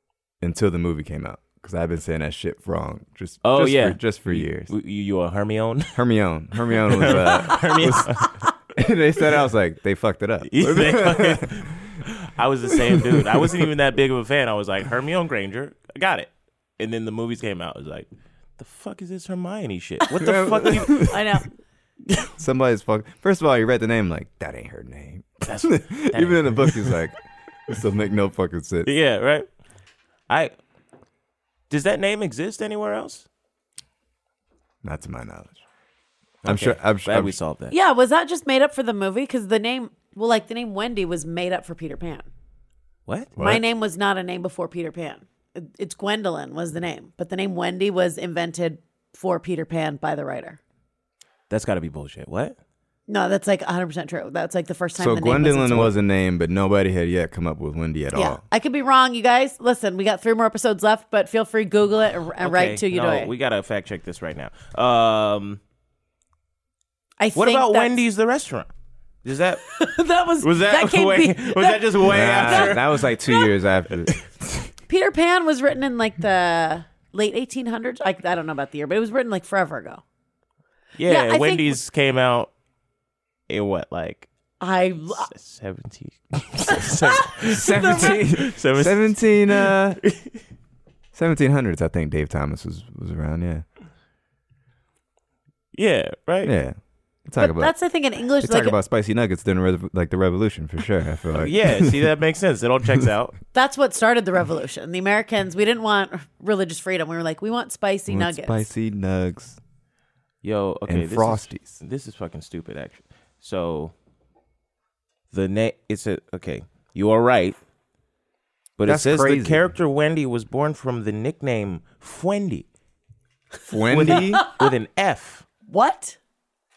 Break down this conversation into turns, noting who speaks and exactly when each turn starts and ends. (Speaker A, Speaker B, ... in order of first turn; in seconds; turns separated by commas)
Speaker A: 0.4-4.7, Speaker B: 3.4-6.0, Speaker A: 5.9-11.7, Speaker B: 6.7-8.4, Speaker B: 10.4-18.1, Speaker A: 12.8-13.7, Speaker B: 18.6-21.2, Speaker A: 20.1-21.2, Speaker C: 20.9-21.5, Speaker A: 22.4-28.9, Speaker B: 25.4-27.0, Speaker B: 28.8-29.5, Speaker B: 31.7-33.2, Speaker A: 34.8-35.6, Speaker A: 36.4-37.3, Speaker B: 36.4-37.7, Speaker C: 37.7-42.3, Speaker B: 43.1-43.3, Speaker A: 43.4-43.6, Speaker C: 43.4-50.6, Speaker B: 51.5-52.5, Speaker C: 53.1-55.9, Speaker A: 55.0-58.4, Speaker C: 58.1-63.3, Speaker B: 62.4-65.6, Speaker C: 67.2-67.9, Speaker B: 67.3-68.7, Speaker B: 69.2-69.6, Speaker C: 69.7-72.8, Speaker B: 70.4-73.1, Speaker A: 72.0-74.7, Speaker C: 74.9-80.0, Speaker B: 81.0-82.5, Speaker C: 81.0-81.8, Speaker B: 83.5-84.3, Speaker C: 84.6-85.3, Speaker B: 85.3-90.3, Speaker C: 86.8-88.1, Speaker A: 87.5-90.0, Speaker A: 91.1-93.6, Speaker B: 95.7-96.5, Speaker A: 96.4-97.7, Speaker C: 97.4-98.8, Speaker A: 98.4-102.0, Speaker B: 101.3-103.3, Speaker C: 103.5-108.7, Speaker A: 108.1-109.6, Speaker B: 110.4-113.9, Speaker A: 110.9-111.7, Speaker B: 115.3-117.6, Speaker B: 118.8-122.7, Speaker A: 118.8-119.6, Speaker A: 123.7-124.4, Speaker B: 123.9-125.5, Speaker C: 124.3-124.6, Speaker C: 125.7-126.2